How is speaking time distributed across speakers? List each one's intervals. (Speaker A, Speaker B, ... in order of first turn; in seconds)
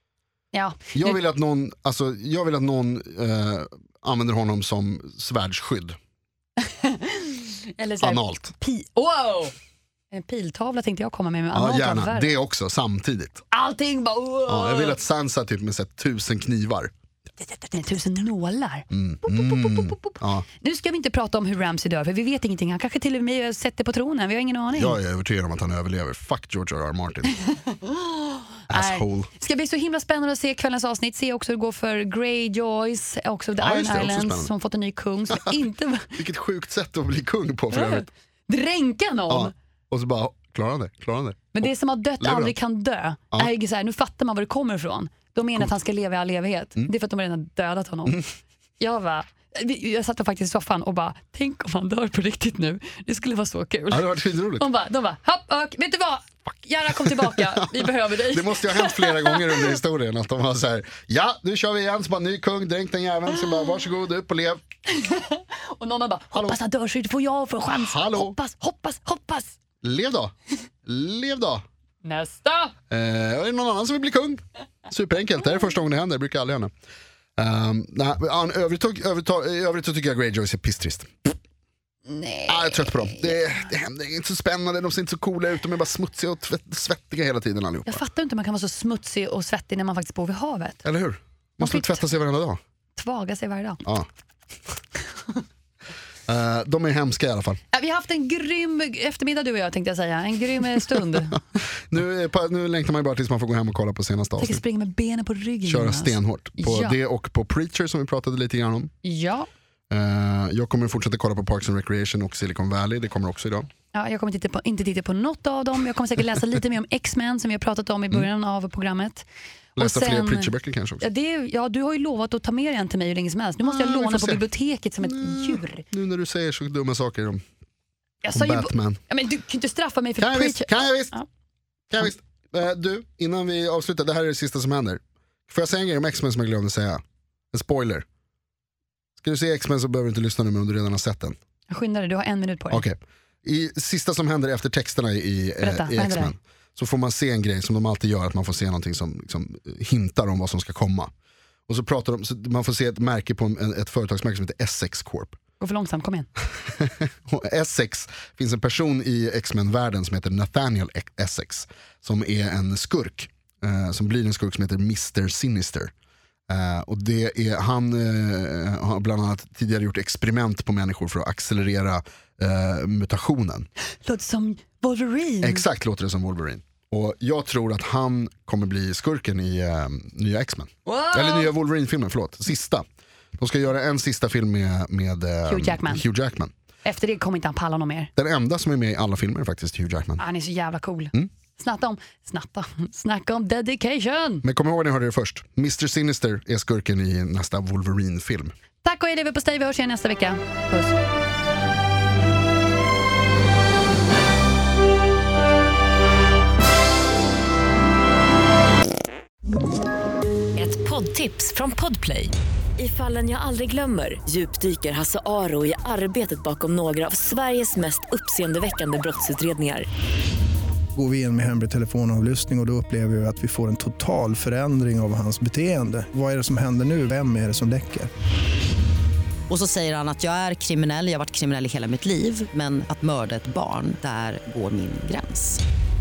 Speaker A: 0.5-1.2, 6.7-9.5, 10.1-12.3, 13.5-15.0, 17.7-25.0, 27.7-36.1, 37.7-39.5, 41.5-48.2, 48.8-59.8, 64.9-69.6, 72.0-72.7, 82.1-83.7, 87.9-90.8, 91.6-92.1, 93.0-93.8, 97.7-101.6, 104.4-107.0, 109.0-109.5, 113.9-125.8, 128.2-131.3, 141.7-142.8, 145.6-146.3, 155.6-156.3, 174.0-175.7, 180.9-181.5, 185.5-186.0, 186.8-188.1, 190.2-194.4, 198.8-201.0
Speaker B: 0.9-6.0, 8.0-8.5, 11.5-13.4, 14.5-16.9, 18.9-20.4, 24.8-27.3, 28.7-29.3, 33.6-34.5, 35.3-35.6, 36.2-38.1, 39.3-41.6, 42.2-42.5, 53.9-54.7, 57.0-64.6, 66.3-66.6, 67.7-68.4, 69.8-71.7, 72.9-76.7, 77.4-81.4, 82.5-88.0, 90.8-92.6, 96.3-97.6, 101.9-104.6, 105.7-108.9, 109.9-113.7, 119.8-121.0, 123.6-124.5, 125.0-127.4, 128.3-129.0, 130.2-131.2, 131.9-138.1, 139.2-141.4, 142.7-151.1, 151.7-155.4, 156.8-165.9, 166.5-173.7, 175.4-182.8, 183.4-186.5, 188.2-190.2, 194.4-198.5
Speaker C: 210.6-219.9
Speaker D: 220.9-228.1
Speaker E: 229.5-235.6